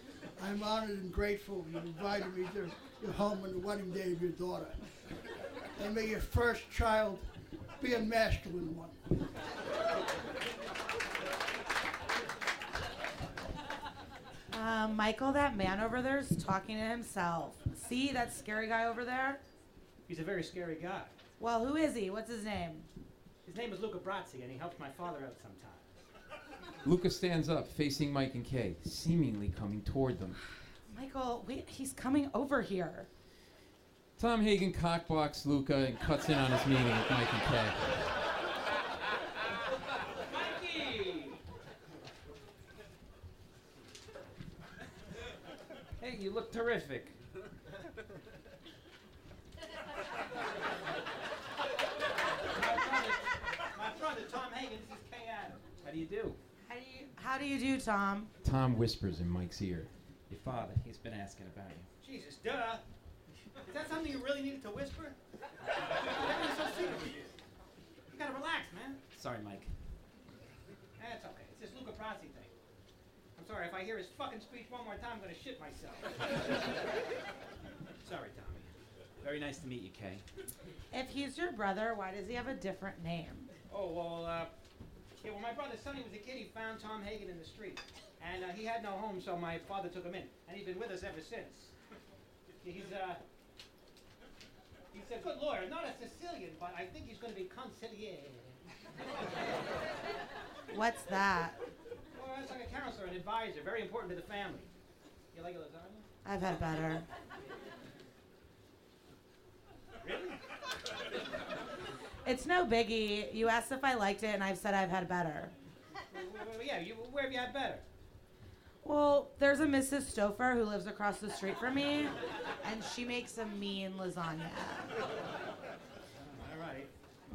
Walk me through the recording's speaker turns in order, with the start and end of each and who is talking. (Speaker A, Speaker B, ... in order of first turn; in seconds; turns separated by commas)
Speaker A: 0.4-4.8, Speaker A: 5.8-9.0, Speaker B: 14.5-19.4, Speaker C: 20.1-21.1, Speaker B: 21.4-22.9, Speaker C: 23.4-25.9, Speaker D: 26.8-30.4, Speaker B: 30.9-33.1, Speaker D: 34.2-37.8, Speaker C: 40.4-41.3, Speaker E: 46.0-47.1, Speaker C: 52.5-55.7, Speaker E: 55.8-56.4, Speaker B: 56.6-58.3, Speaker D: 58.4-59.9, Speaker E: 60.3-61.9, Speaker C: 62.0-62.8, Speaker C: 63.7-65.2, Speaker C: 66.0-67.3, Speaker C: 68.1-69.0, Speaker E: 69.1-69.7, Speaker C: 71.0-72.5, Speaker C: 73.3-76.5, Speaker C: 78.0-78.7, Speaker E: 79.2-80.2, Speaker B: 80.9-83.5, Speaker C: 83.7-84.5, Speaker C: 85.2-91.7, Speaker C: 92.6-93.2, Speaker C: 94.9-98.6, Speaker B: 100.7-101.5, Speaker C: 102.2-104.7, Speaker C: 105.3-106.0, Speaker B: 106.2-107.0, Speaker C: 110.0-110.4, Speaker B: 112.2-115.5, Speaker C: 116.1-117.8, Speaker B: 118.8-124.9, Speaker C: 126.2-126.9